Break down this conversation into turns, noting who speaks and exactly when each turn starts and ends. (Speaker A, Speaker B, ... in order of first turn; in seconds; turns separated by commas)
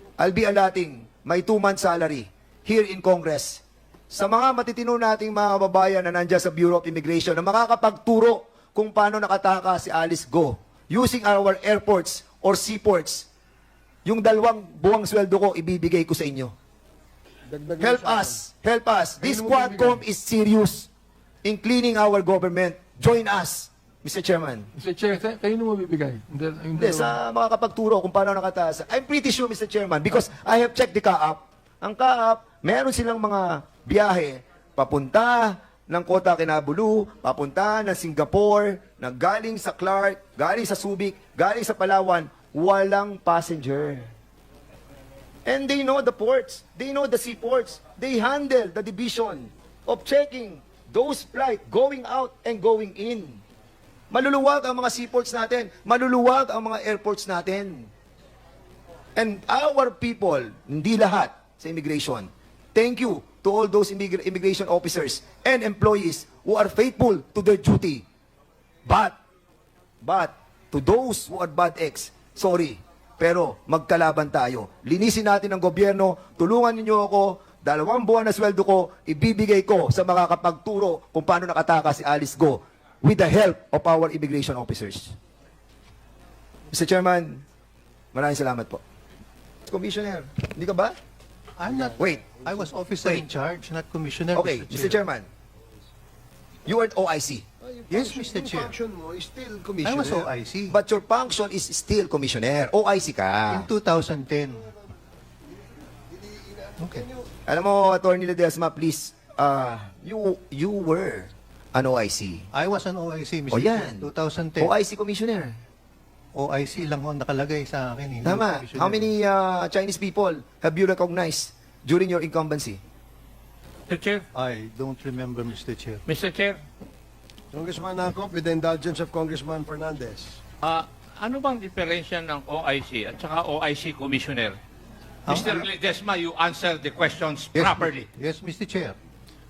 Speaker A: 0.2-13.3, Speaker A: 14.0-16.5, Speaker B: 17.5-18.4, Speaker A: 17.8-20.9, Speaker B: 19.2-20.0, Speaker A: 21.4-24.7, Speaker C: 24.7-27.2, Speaker A: 26.8-44.1, Speaker A: 45.5-53.4, Speaker A: 54.1-57.9, Speaker A: 59.1-68.0, Speaker A: 68.8-69.2, Speaker A: 70.0-85.2, Speaker A: 86.7-87.4, Speaker A: 88.1-88.8, Speaker A: 89.7-91.0, Speaker D: 91.6-95.0, Speaker A: 92.0-92.3, Speaker A: 94.3-95.3, Speaker A: 96.7-97.4, Speaker B: 97.6-100.3, Speaker D: 97.9-98.7, Speaker D: 99.8-100.8, Speaker A: 100.7-103.7, Speaker D: 103.5-104.7, Speaker B: 106.1-107.3, Speaker D: 106.8-107.0, Speaker A: 107.5-112.5, Speaker D: 112.5-114.7, Speaker A: 113.5-115.5, Speaker D: 116.3-119.1, Speaker A: 118.2-122.8, Speaker E: 123.9-124.2, Speaker D: 124.3-126.0, Speaker E: 126.0-126.6, Speaker B: 127.5-130.4, Speaker E: 130.6-134.6, Speaker D: 135.2-135.7, Speaker E: 135.3-138.1, Speaker D: 137.5-139.0